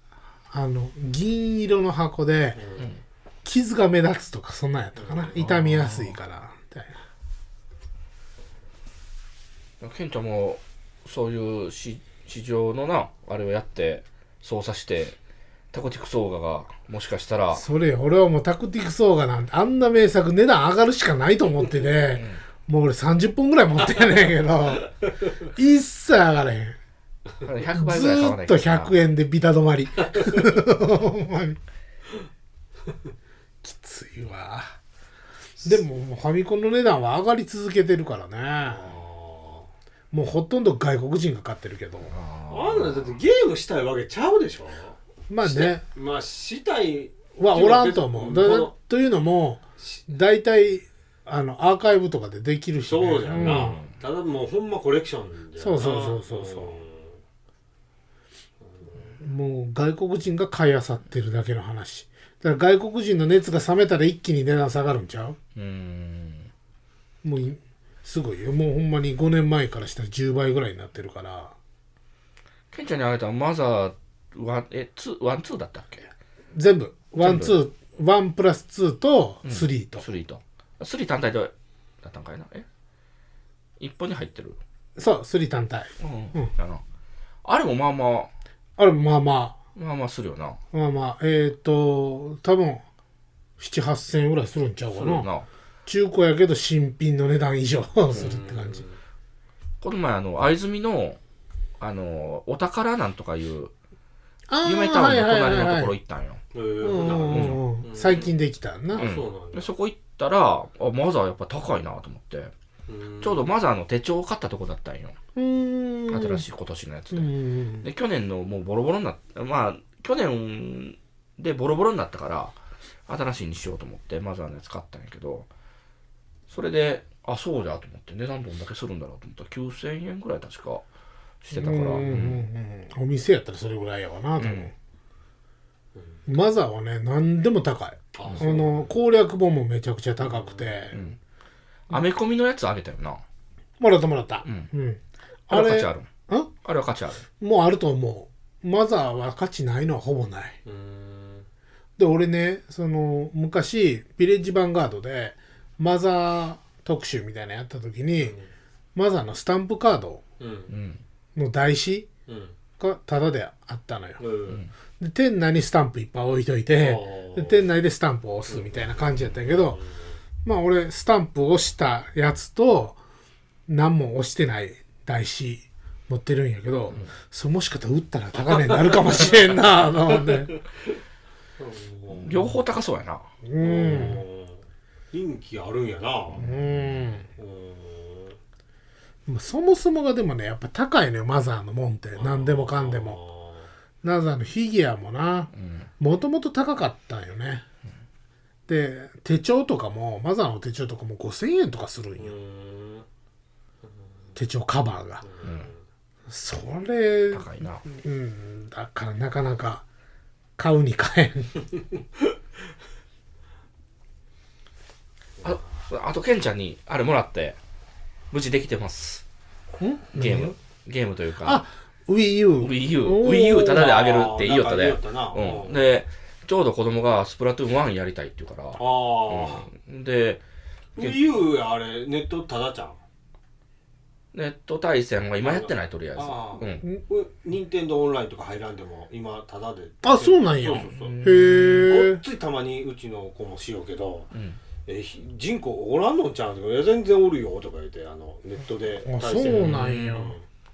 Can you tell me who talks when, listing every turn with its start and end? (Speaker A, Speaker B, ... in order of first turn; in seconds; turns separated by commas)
Speaker A: 0.5-2.6, Speaker B: 2.6-2.9, Speaker A: 3.4-7.0, Speaker B: 5.0-5.3, Speaker C: 5.3-6.2, Speaker C: 9.8-15.2, Speaker C: 15.7-17.6, Speaker A: 17.5-26.8, Speaker C: 22.2-22.4, Speaker C: 27.4-29.0, Speaker A: 27.7-31.6, Speaker A: 33.6-34.8, Speaker A: 35.6-38.9, Speaker B: 38.6-39.7, Speaker A: 40.1-42.1, Speaker C: 42.1-43.2, Speaker B: 42.5-48.7, Speaker A: 45.3-45.8, Speaker A: 47.4-53.8, Speaker B: 52.9-57.2, Speaker C: 53.3-53.9, Speaker A: 55.6-56.8, Speaker B: 58.7-59.0, Speaker A: 59.2-65.4, Speaker C: 65.5-66.5, Speaker A: 67.2-71.5, Speaker C: 72.7-76.1, Speaker A: 76.5-80.0, Speaker C: 77.2-77.6, Speaker C: 79.4-82.7, Speaker C: 83.8-84.6, Speaker A: 85.0-86.5, Speaker C: 86.0-86.8, Speaker C: 87.5-88.3, Speaker A: 88.8-89.6, Speaker C: 89.8-90.6, Speaker A: 90.7-92.8, Speaker A: 93.6-95.3, Speaker C: 94.9-95.5, Speaker A: 95.9-98.8, Speaker B: 98.2-99.0, Speaker C: 99.8-101.2, Speaker C: 101.8-103.7, Speaker A: 104.5-105.9, Speaker C: 104.6-106.4, Speaker B: 106.5-108.3, Speaker A: 106.8-109.1, Speaker C: 107.3-108.3, Speaker B: 108.9-109.7, Speaker C: 109.0-112.5, Speaker B: 112.9-113.4, Speaker C: 113.2-115.2, Speaker A: 115.3-116.5, Speaker C: 116.1-122.5, Speaker A: 117.1-117.9, Speaker C: 123.1-125.5, Speaker C: 126.5-130.8, Speaker C: 131.4-132.4, Speaker A: 131.5-134.7, Speaker C: 134.4-134.7, Speaker B: 136.0-136.2, Speaker A: 136.3-141.0, Speaker B: 138.2-139.0, Speaker B: 140.2-140.7, Speaker C: 140.9-141.2, Speaker C: 141.9-143.2, Speaker A: 143.8-146.5, Speaker C: 144.4-144.7, Speaker C: 145.5-146.1, Speaker C: 146.6-147.3, Speaker A: 147.4-150.6, Speaker B: 150.7-151.5, Speaker A: 152.0-158.4, Speaker B: 158.2-158.5, Speaker A: 158.9-160.2, Speaker B: 160.4-160.7, Speaker C: 160.7-161.0, Speaker A: 161.3-162.1, Speaker B: 162.3-162.6, Speaker A: 162.8-164.2, Speaker B: 164.2-164.6, Speaker A: 165.0-169.8, Speaker B: 166.8-167.7, Speaker B: 168.5-170.1, Speaker A: 170.4-173.0, Speaker A: 173.7-180.6, Speaker B: 181.6-182.6, Speaker C: 182.2-183.3, Speaker A: 183.4-184.2, Speaker B: 183.6-186.5, Speaker A: 186.4-187.3, Speaker C: 186.4-187.2, Speaker B: 187.4-188.4, Speaker A: 189.3-193.2, Speaker B: 192.2-193.7, Speaker A: 194.0-197.6, Speaker C: 195.6-195.9, Speaker A: 198.7-202.4, Speaker B: 202.2-203.1, Speaker A: 204.4-205.2, Speaker B: 205.2-205.8, Speaker C: 205.4-205.7, Speaker A: 206.3-209.8, Speaker C: 207.3-207.8, Speaker A: 210.6-211.6, Speaker C: 215.4-217.6, Speaker C: 218.3-219.2, Speaker A: 219.8-220.6, Speaker C: 220.1-221.6, Speaker A: 221.4-224.0, Speaker C: 222.6-230.4, Speaker B: 223.7-225.9, Speaker B: 228.8-229.7, Speaker B: 231.0-233.0, Speaker C: 234.3-236.8, Speaker B: 235.4-244.3, Speaker A: 240.0-242.2, Speaker C: 240.8-241.8, Speaker C: 244.3-244.6, Speaker B: 244.9-250.4, Speaker A: 249.0-250.4, Speaker C: 249.5-250.3